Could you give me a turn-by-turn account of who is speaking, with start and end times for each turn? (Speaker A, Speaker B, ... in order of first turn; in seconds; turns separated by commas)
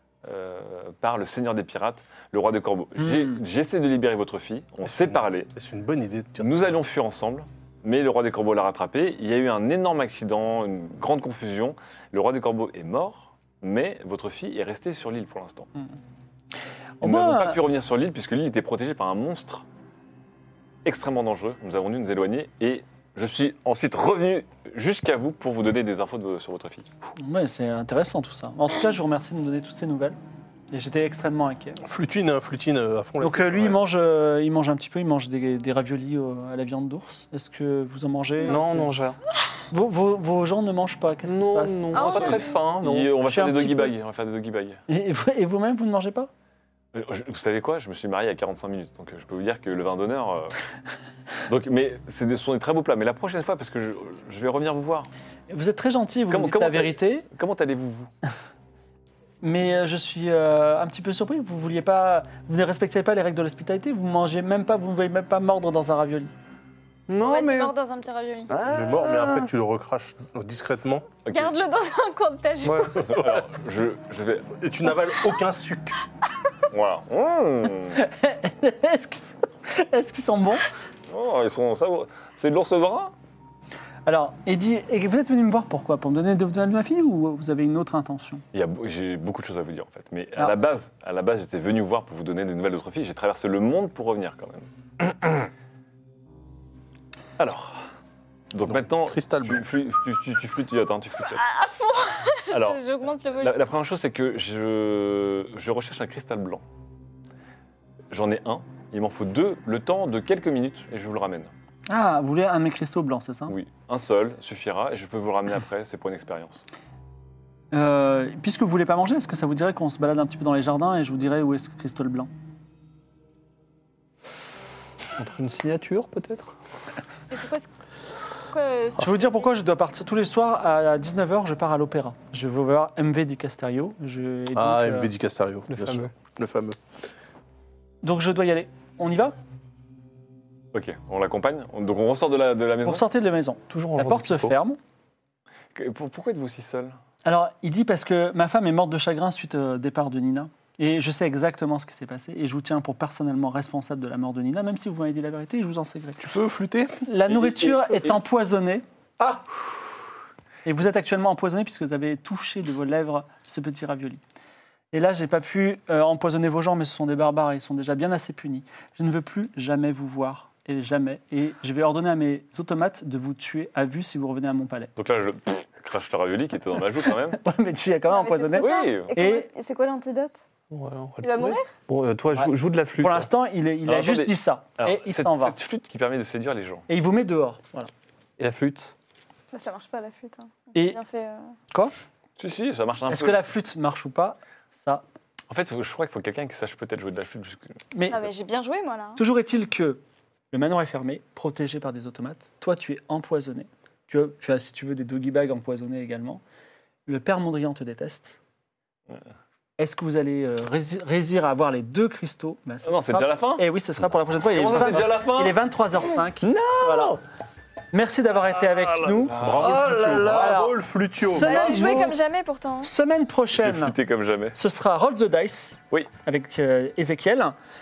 Speaker A: 0.2-5.5, Speaker B: 3.0-3.3, Speaker C: 4.8-6.8, Speaker A: 6.4-15.7, Speaker B: 17.0-17.6, Speaker A: 17.0-19.6, Speaker A: 20.8-26.9, Speaker B: 27.1-30.2, Speaker B: 30.7-31.8, Speaker C: 31.8-33.8, Speaker B: 33.2-38.9, Speaker D: 38.5-39.2, Speaker B: 39.7-42.4, Speaker D: 41.2-43.1, Speaker E: 41.9-42.7, Speaker A: 42.0-44.8, Speaker B: 43.2-43.9, Speaker B: 44.9-46.3, Speaker A: 46.9-50.5, Speaker A: 51.5-55.1, Speaker B: 55.5-57.2, Speaker A: 56.3-58.1, Speaker B: 59.4-66.3, Speaker D: 67.1-67.7, Speaker E: 67.2-68.6, Speaker D: 68.5-69.5, Speaker C: 68.7-71.1, Speaker A: 71.2-71.5, Speaker E: 71.3-73.0, Speaker D: 72.6-73.0, Speaker A: 73.0-74.5, Speaker C: 73.2-73.4, Speaker C: 74.6-76.0, Speaker A: 76.7-78.0, Speaker B: 78.0-80.6, Speaker A: 81.1-83.1, Speaker B: 84.0-88.4, Speaker A: 88.5-94.7, Speaker A: 97.4-97.8, Speaker A: 98.5-101.4, Speaker C: 98.7-99.6, Speaker E: 101.3-103.6, Speaker A: 102.5-102.8, Speaker A: 103.3-106.6, Speaker A: 108.1-111.5, Speaker B: 111.9-113.5, Speaker A: 113.5-116.6, Speaker B: 117.7-122.3, Speaker D: 125.2-126.5, Speaker E: 127.3-127.7, Speaker E: 128.5-129.5, Speaker B: 129.0-135.1, Speaker C: 134.5-136.8, Speaker D: 135.7-136.1, Speaker B: 138.0-139.3, Speaker A: 140.7-143.0, Speaker B: 142.8-144.8, Speaker D: 143.7-144.6, Speaker A: 145.7-147.0, Speaker B: 147.2-156.3, Speaker C: 156.2-157.0, Speaker B: 157.0-158.8, Speaker A: 157.4-158.1, Speaker B: 160.6-164.2, Speaker B: 164.9-174.9, Speaker A: 175.0-177.4, Speaker B: 177.2-179.5, Speaker E: 178.1-180.4, Speaker A: 178.5-179.1, Speaker D: 180.7-183.3, Speaker E: 181.2-181.7, Speaker B: 182.3-185.6, Speaker A: 183.9-186.8, Speaker B: 186.9-187.9, Speaker D: 188.4-188.9, Speaker E: 189.5-191.5, Speaker A: 192.4-193.5, Speaker B: 193.1-195.0, Speaker A: 195.5-197.8, Speaker B: 197.9-198.2, Speaker E: 198.1-199.2, Speaker B: 199.2-200.0, Speaker B: 200.5-206.4, Speaker B: 207.1-208.4, Speaker B: 209.8-217.2, Speaker A: 212.8-213.7, Speaker A: 214.5-215.6, Speaker D: 216.4-217.2, Speaker B: 217.9-219.3, Speaker A: 218.8-220.0, Speaker C: 219.4-222.2, Speaker D: 219.5-220.6, Speaker B: 220.3-222.1, Speaker E: 221.3-222.9, Speaker B: 222.8-223.9, Speaker A: 223.5-224.6, Speaker B: 224.5-227.5